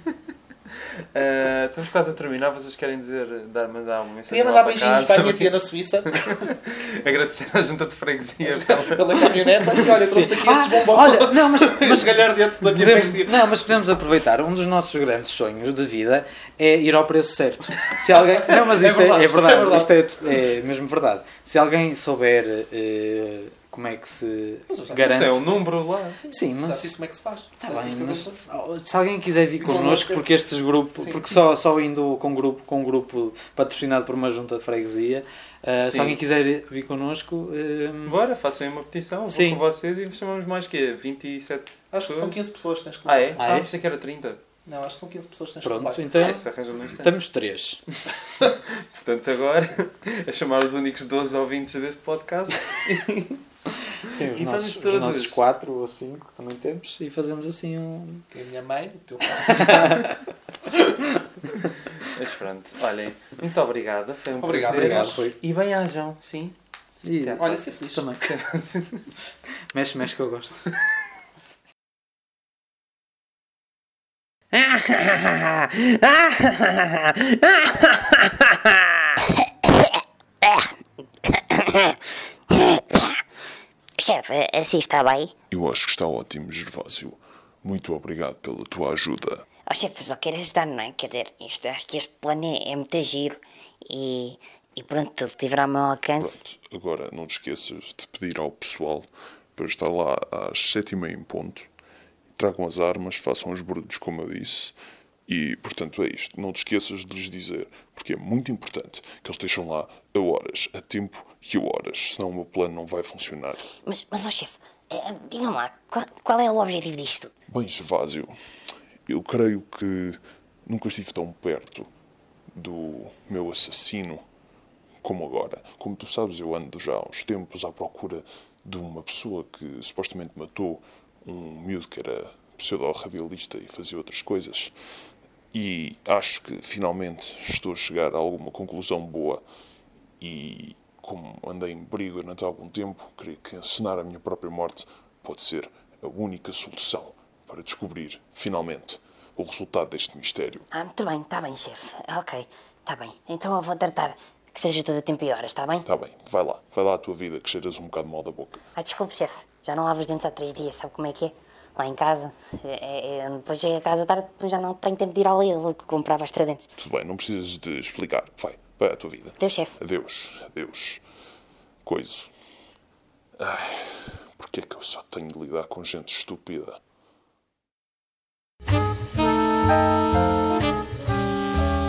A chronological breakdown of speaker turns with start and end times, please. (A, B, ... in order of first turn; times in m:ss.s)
0:01.0-0:09.8 A
0:04.3-0:06.5 B
0:08.4-0:13.6 B
0:10.0-0:25.5 C
0:18.2-0:20.4 B
0:24.7-0:25.5 B
0:25.0-0:26.3 A
0:26.3-0:26.9 C
0:26.3-0:28.4 B
0:27.6-0:38.2 C
0:29.6-0:30.2 B
0:30.9-0:31.4 B
0:35.8-0:36.2 A
0:38.0-0:42.4 A
0:39.3-0:39.6 C
0:41.9-0:43.4 B
0:43.0-0:44.4 A
0:43.4-0:43.7 C
0:44.6-0:46.3 B
0:45.6-0:47.8 C
0:46.1-0:47.1 A
0:48.6-0:53.4 A
0:54.0-0:58.2 C
0:54.2-0:55.4 A
0:58.3-1:00.1 B
0:59.5-1:00.1 C
1:02.1-1:06.6 A
1:04.4-1:05.2 B
1:04.6-1:05.4 C
1:07.0-1:08.2 C
1:07.1-1:07.4 A
1:07.4-1:08.3 B
1:08.2-1:09.0 A
1:09.7-1:10.7 C
1:14.6-1:20.7 D
1:21.2-1:22.0 D
1:22.5-1:23.2 D
1:24.0-1:25.3 D
1:25.5-1:29.4 E
1:29.7-1:36.4 D
1:36.2-1:41.7 E
1:42.4-1:44.7 E
1:45.3-1:53.6 E
1:53.8-1:57.3 D
1:57.5-1:58.4 E
1:59.0-2:01.9 E
2:02.5-2:04.2 E
2:05.0-2:14.7 E
2:15.5-2:19.4 E
2:20.2-2:30.6 E
2:30.7-2:35.8 D
2:35.8-2:38.6 E
2:38.8-2:46.6 D
2:46.8-2:51.0 E
2:49.4-2:49.7 D
2:51.8-2:52.3 E
2:53.4-2:56.8 E